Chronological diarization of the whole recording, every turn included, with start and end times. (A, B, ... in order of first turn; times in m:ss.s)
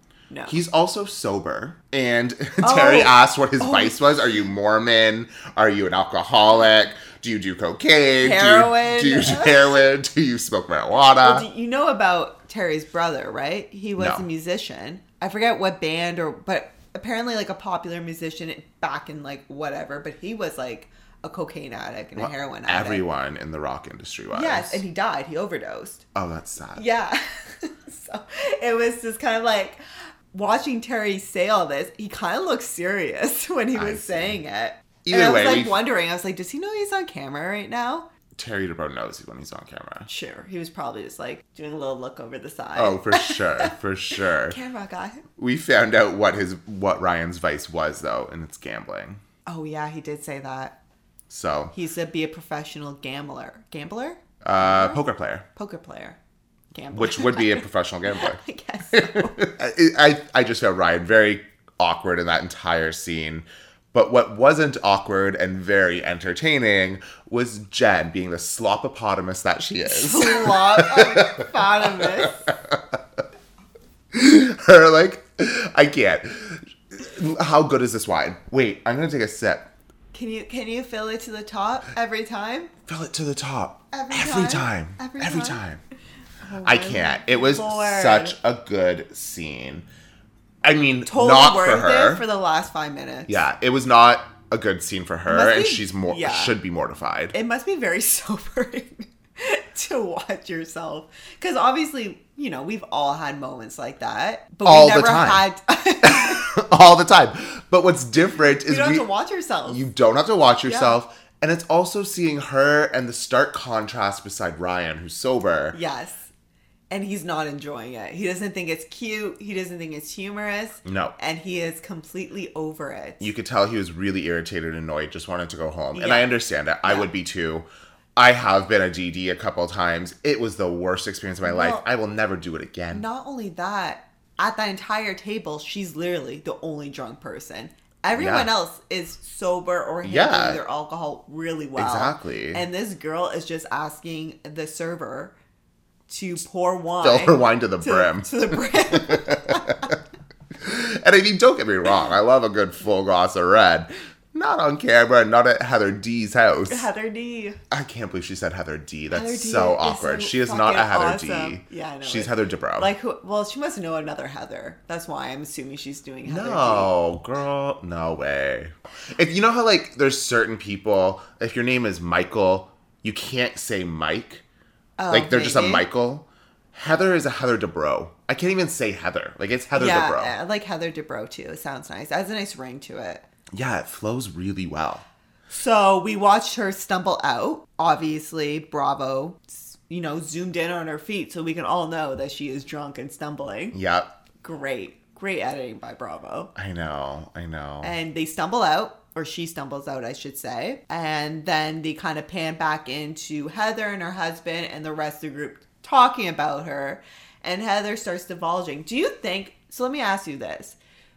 0:00.3-0:00.6 A
0:00.5-0:11.5 B
0:02.6-0:04.3 A
0:08.2-0:09.8 A
0:11.1-0:23.0 A
0:14.0-0:14.3 B
0:22.2-0:24.8 B
0:24.3-0:26.0 A
0:26.1-0:26.8 B
0:26.8-0:29.8 A
0:30.3-0:38.1 A
0:33.7-0:34.4 B
0:35.0-0:35.8 B
0:38.4-0:40.1 B
0:40.1-0:43.7 A
0:42.8-0:44.6 B
0:44.3-0:45.2 A
0:45.4-0:49.2 B
0:49.5-0:50.8 A
0:51.3-0:51.7 B
0:51.7-0:55.0 A
0:54.4-0:55.4 B
0:55.6-0:56.2 A
0:56.7-0:59.4 A
0:56.9-0:58.4 B
0:58.9-1:13.0 B
1:09.9-1:12.5 A
1:14.1-1:19.7 B
1:20.1-1:22.7 A
1:22.9-1:25.8 B
1:23.9-1:25.6 A
1:26.4-1:28.4 A
1:26.6-1:29.9 B
1:30.6-1:32.2 B
1:31.1-1:33.4 A
1:33.3-1:37.3 B
1:35.3-1:36.6 A
1:37.3-1:46.5 A
1:44.6-1:45.4 B
1:46.0-1:49.1 B
1:48.5-1:49.8 A
1:49.7-1:55.8 B
1:50.6-1:51.0 A
1:55.7-1:56.3 A
1:56.9-2:03.3 A
2:00.8-2:01.1 B
2:03.2-2:13.0 B
2:05.9-2:07.1 A
2:11.4-2:11.8 A
2:12.9-2:25.3 A
2:18.1-2:18.5 B
2:20.0-2:20.6 B
2:21.8-2:22.6 B
2:26.1-2:29.9 A
2:27.0-2:29.9 B
2:30.6-2:36.9 B
2:36.7-2:37.6 A
2:37.7-2:42.9 B
2:39.1-2:46.9 A
2:46.2-2:54.4 B
2:55.0-2:55.8 A
2:55.1-3:00.3 B
2:59.7-3:03.2 A
3:03.5-3:05.0 B
3:05.5-3:13.8 A
3:13.7-3:14.1 B
3:14.4-3:16.5 A
3:16.6-3:17.9 B
3:17.8-3:30.8 A